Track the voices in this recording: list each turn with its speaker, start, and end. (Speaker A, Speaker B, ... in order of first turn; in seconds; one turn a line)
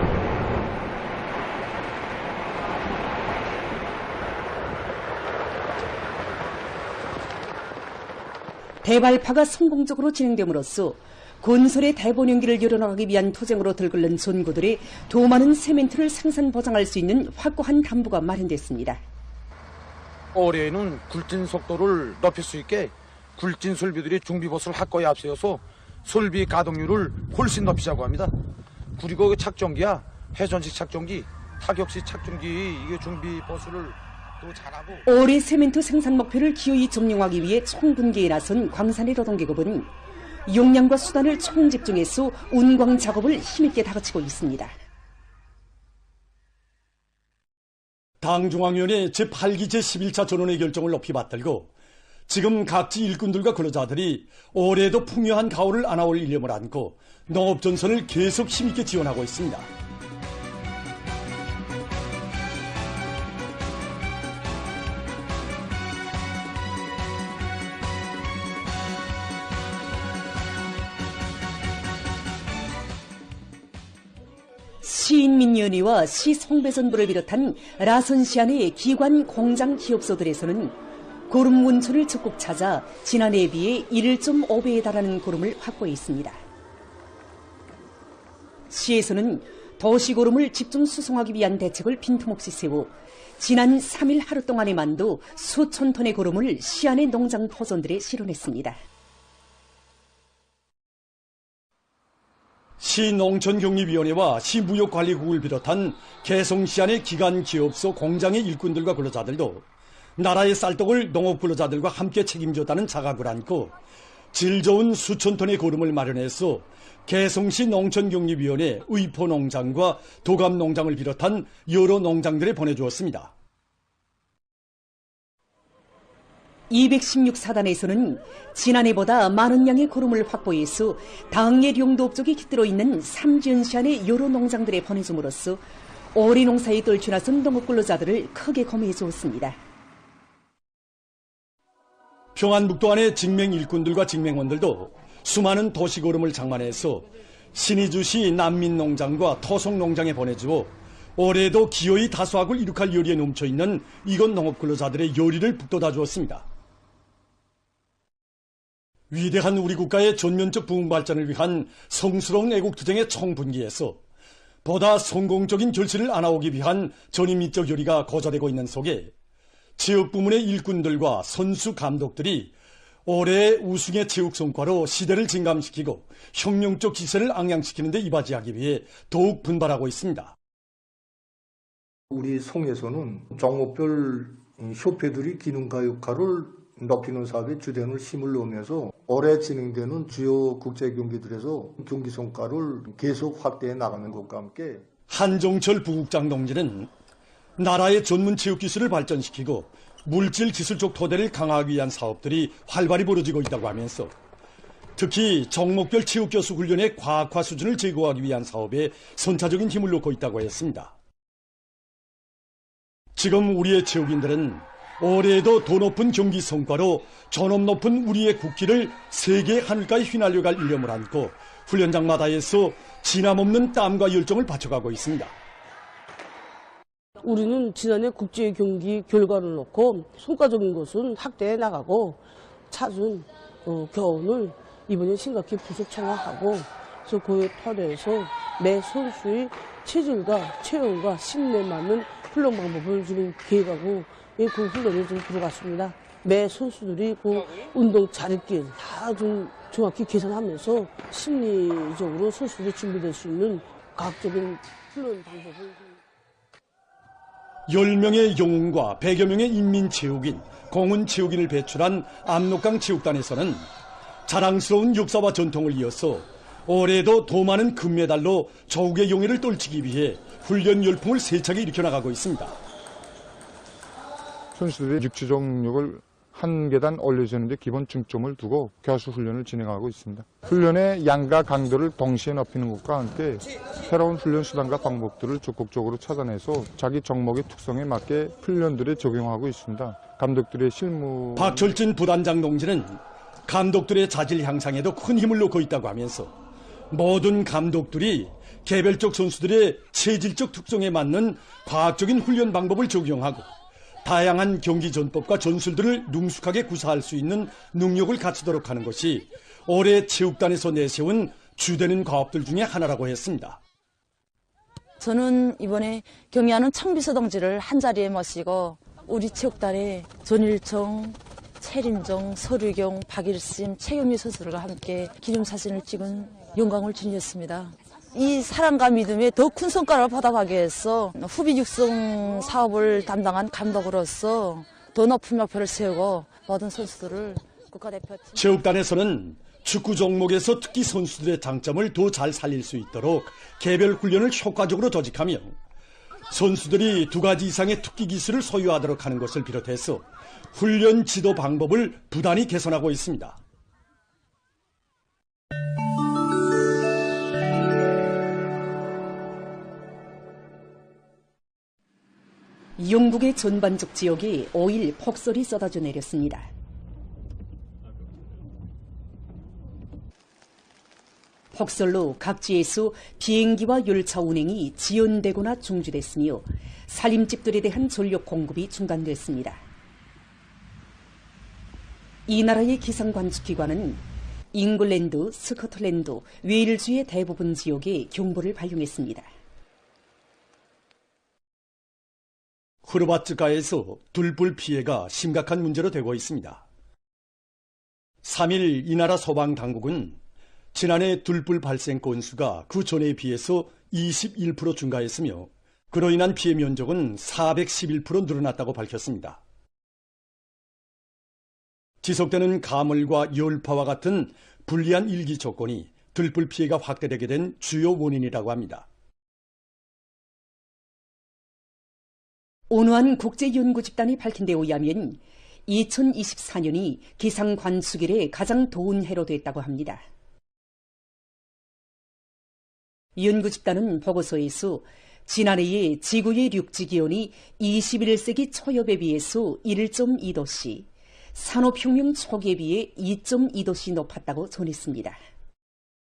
Speaker A: 8.8-19.0
Speaker B: 20.3-28.3
Speaker B: 29.0-35.0
Speaker A: 35.0-39.9
Speaker A: 40.5-44.8
Speaker C: 48.2-51.7
Speaker C: 52.3-59.7
Speaker A: 74.8-86.4
Speaker A: 88.7-98.8
Speaker C: 102.8-109.7
Speaker C: 110.2-113.7
Speaker C: 114.3-123.3
Speaker A: 126.7-135.6
Speaker A: 136.1-139.6
Speaker C: 142.3-156.5
Speaker C: 159.1-164.0
Speaker C: 164.7-169.1
Speaker C: 169.8-172.5
Speaker C: 173.1-180.3
Speaker D: 182.1-194.8
Speaker C: 195.1-196.9
Speaker C: 197.6-204.1
Speaker C: 205.0-210.9
Speaker C: 213.2-225.3
Speaker E: 227.2-256.0
Speaker C: 257.7-263.7
Speaker C: 264.3-272.6
Speaker F: 274.6-291.7
Speaker C: 291.4-296.3
Speaker C: 296.9-303.5
Speaker C: 304.0-313.6
Speaker G: 315.0-338.4
Speaker C: 338.4-345.6
Speaker C: 346.3-353.4
Speaker A: 362.8-366.5
Speaker A: 371.5-379.6
Speaker A: 382.3-389.3
Speaker C: 392.8-396.6
Speaker C: 398.2-400.2
Speaker C: 400.7-409.4
Speaker C: 412.0-418.9
Speaker A: 422.7-430.0
Speaker A: 433.2-445.2